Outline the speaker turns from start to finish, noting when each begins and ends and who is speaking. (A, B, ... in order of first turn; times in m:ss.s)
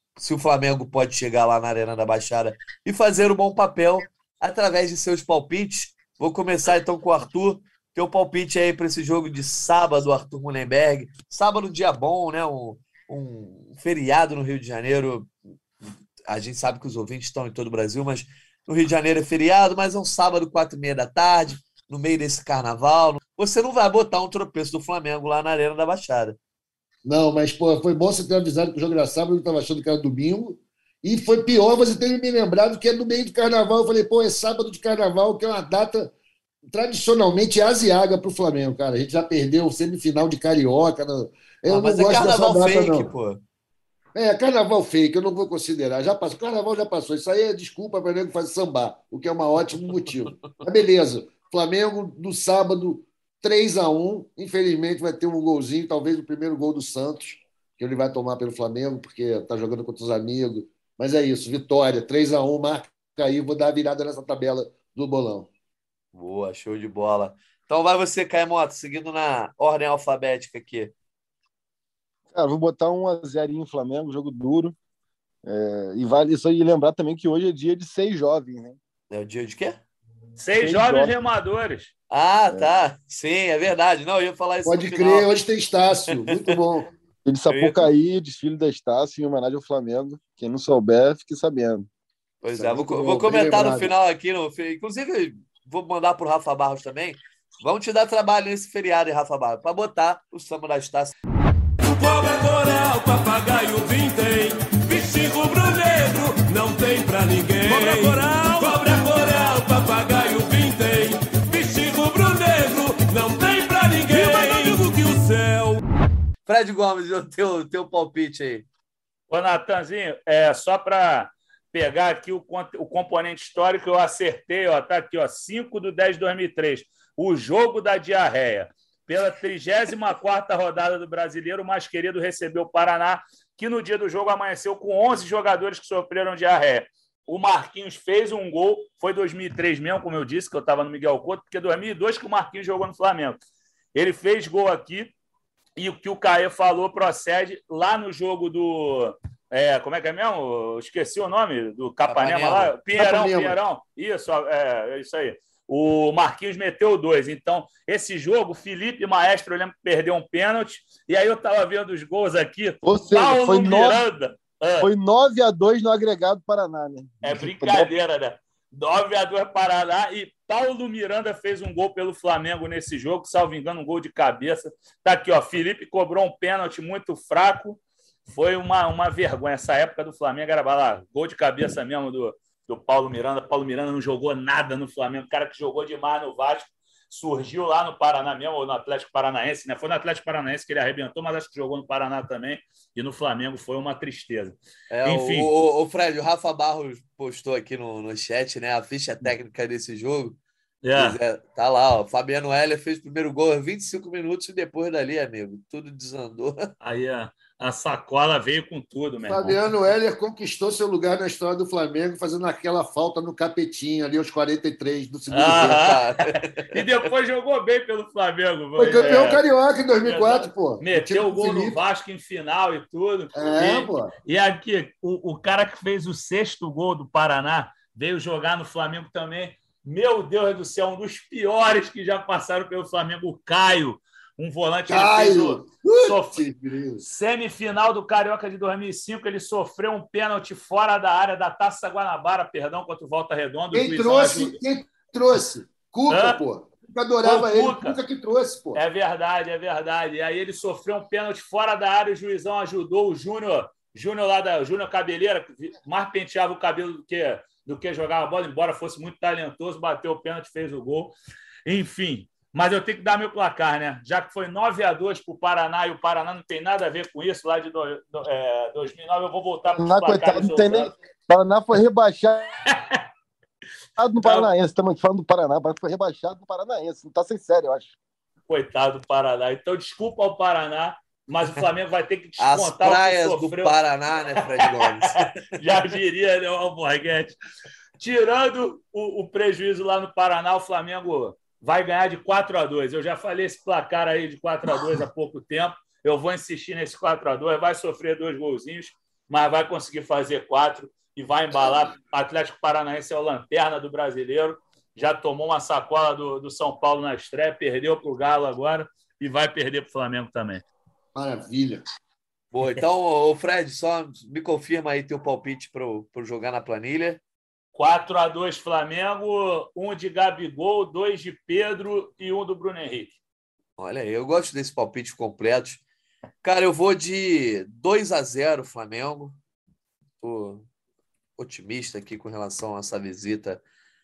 0:00.2-0:15.3 A
0:16.3-0:26.4 A
0:27.0-0:36.1 B
0:36.7-0:43.1 B
0:41.7-0:43.4 A
0:44.1-1:05.5 B
1:06.1-1:10.9 A
1:12.3-1:14.7 C
1:15.4-1:18.8 C
1:19.1-1:19.8 A
1:20.4-1:21.9 D
1:20.6-1:21.1 C
1:22.1-1:25.3 A
1:24.6-1:26.9 B
1:27.2-1:31.9 C
1:27.5-1:27.9 A
1:32.4-1:41.1 A
1:32.5-1:33.9 B
1:41.8-1:55.8 E
1:54.1-1:54.8 D
1:56.4-1:58.7 A
1:59.3-2:23.4 D
2:23.9-2:25.1 D
2:25.8-2:44.9 D
2:32.1-2:32.7 A
2:33.0-2:33.6 B
2:42.8-2:44.0 C
2:44.8-2:47.9 C
2:47.2-3:15.5 D
3:14.9-3:20.4 A
3:20.8-3:21.2 D
3:20.9-3:26.7 A
3:26.8-3:29.6 D
3:29.3-3:35.8 B
3:35.3-3:39.4 D
3:35.6-3:36.8 A
3:38.8-3:41.8 B
3:40.0-3:56.4 D
3:43.3-3:44.1 B
3:54.9-3:57.0 B
3:57.0-4:04.5 D
4:03.7-4:08.8 B
4:06.1-4:06.4 D
4:07.2-4:08.0 D
4:08.7-4:30.9 D
4:29.8-4:32.5 C
4:32.7-4:33.0 D
4:34.0-4:37.9 C
4:34.2-4:34.5 D
4:38.5-4:43.7 D
4:42.4-4:45.6 A
4:44.4-4:47.4 D
4:48.0-5:10.6 D
5:11.1-5:11.8 B
5:12.5-5:17.2 A
5:17.7-5:23.2 D
5:23.8-5:25.8 A
5:26.4-5:29.4 A
5:30.2-5:30.6 A
5:31.4-5:33.6 A